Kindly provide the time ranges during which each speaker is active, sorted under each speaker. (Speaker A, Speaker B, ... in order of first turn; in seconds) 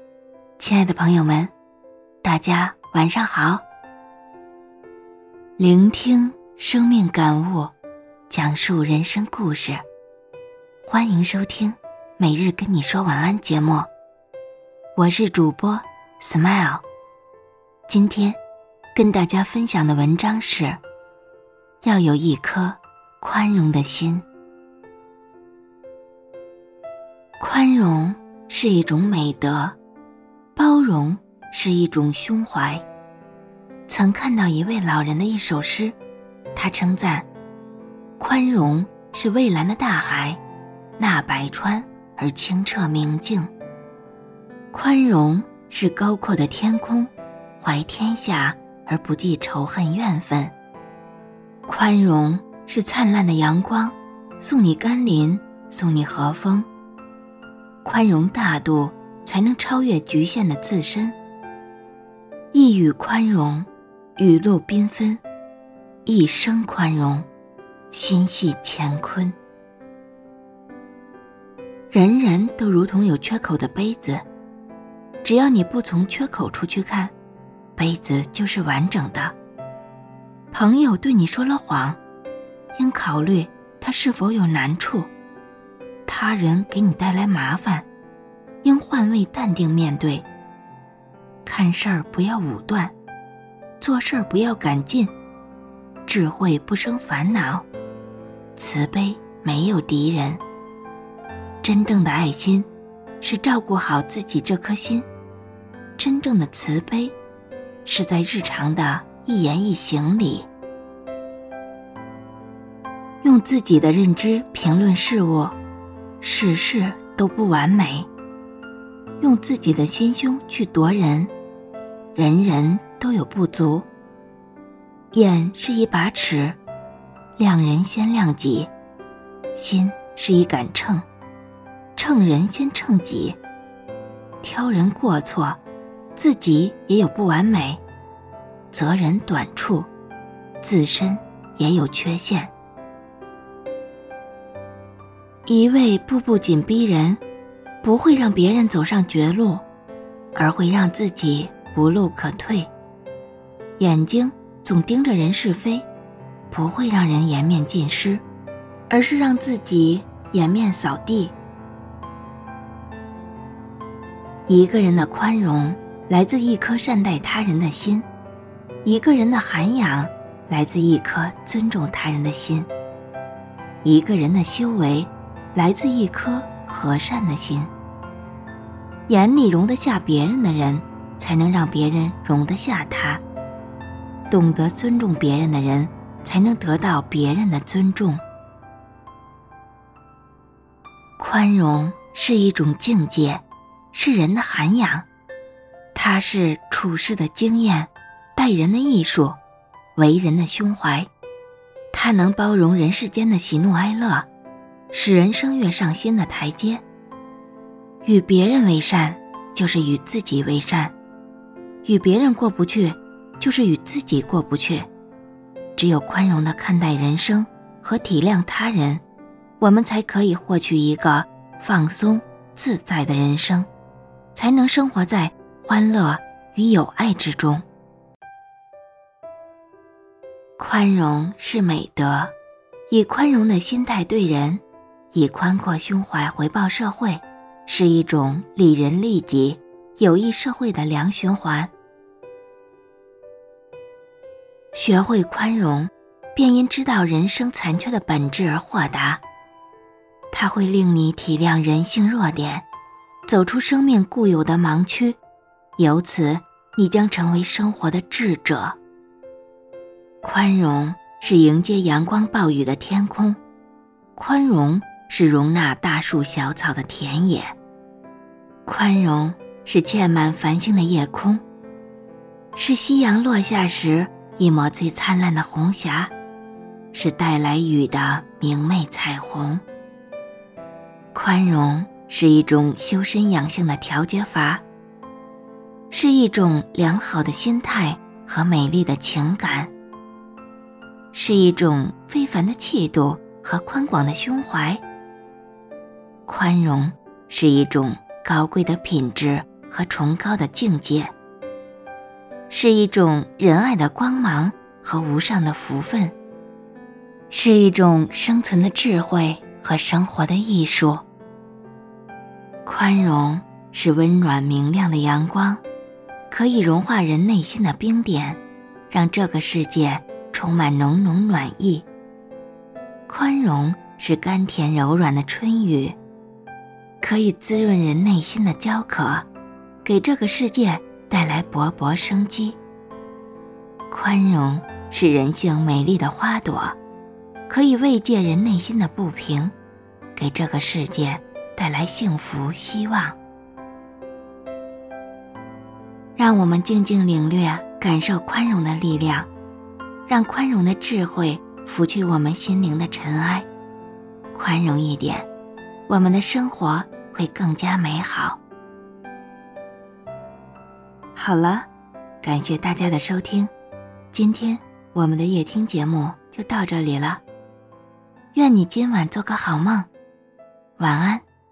Speaker A: 0.6-1.5, 2.2-3.6, 5.6-7.7, 8.3-9.8, 10.8-13.9, 14.9-16.8, 17.9-18.4, 18.9-20.8, 21.8-24.3, 27.4-29.8, 30.6-32.9, 33.9-36.0, 36.5-37.3, 38.2-40.4, 41.0-43.5, 44.7-50.5, 51.7-56.7, 57.8-61.2, 62.5-65.2, 66.1-67.3, 67.9-69.4, 71.9-74.2, 75.2-77.1, 77.8-79.3, 80.5-82.0, 82.8-85.1, 86.1-87.9, 88.6-90.3, 91.5-92.9, 93.8-95.1, 96.1-97.7, 98.6-100.4, 101.6-102.7, 103.2-105.1, 106.0-107.2, 107.8-110.5, 113.2-115.6, 116.2-118.1, 119.2-121.3, 122.2-123.9, 125.1-126.6, 127.4-128.7, 129.6-131.1, 132.0-133.4, 134.4-135.6, 136.2-137.8, 138.7-139.9, 140.6-142.5, 145.5-147.2, 147.8-149.7, 150.3-152.7, 153.8-155.9, 156.5-158.2, 158.9-161.4, 164.5-168.1, 168.8-172.7, 173.8-177.7, 179.1-183.2, 184.3-188.2, 191.2-195.1, 195.9-199.4, 200.0-201.1, 201.9-204.3, 204.9-206.8, 208.1-210.9, 211.8-214.9, 215.8-219.0, 219.6-223.7, 224.3-227.7, 230.6-232.3, 232.9-241.7, 244.7-249.2, 250.3-252.7, 253.3-255.2, 255.8-258.8, 260.2-263.4, 264.1-267.6, 268.7-271.4, 272.6-276.1, 276.9-279.6, 281.1-284.6, 285.9-289.7, 291.1-294.8, 296.3-301.1, 302.5-306.1, 307.3-311.1, 312.7-315.6, 316.3-321.9, 323.1-326.0, 327.0-329.3, 329.9-332.6, 333.9-336.8, 337.5-339.5, 340.2-343.2, 346.2-349.3, 350.1-353.5, 354.3-355.3, 355.9-358.4, 361.2-361.7, 362.2-363.5, 364.1-367.2, 368.3-369.9, 370.8-371.2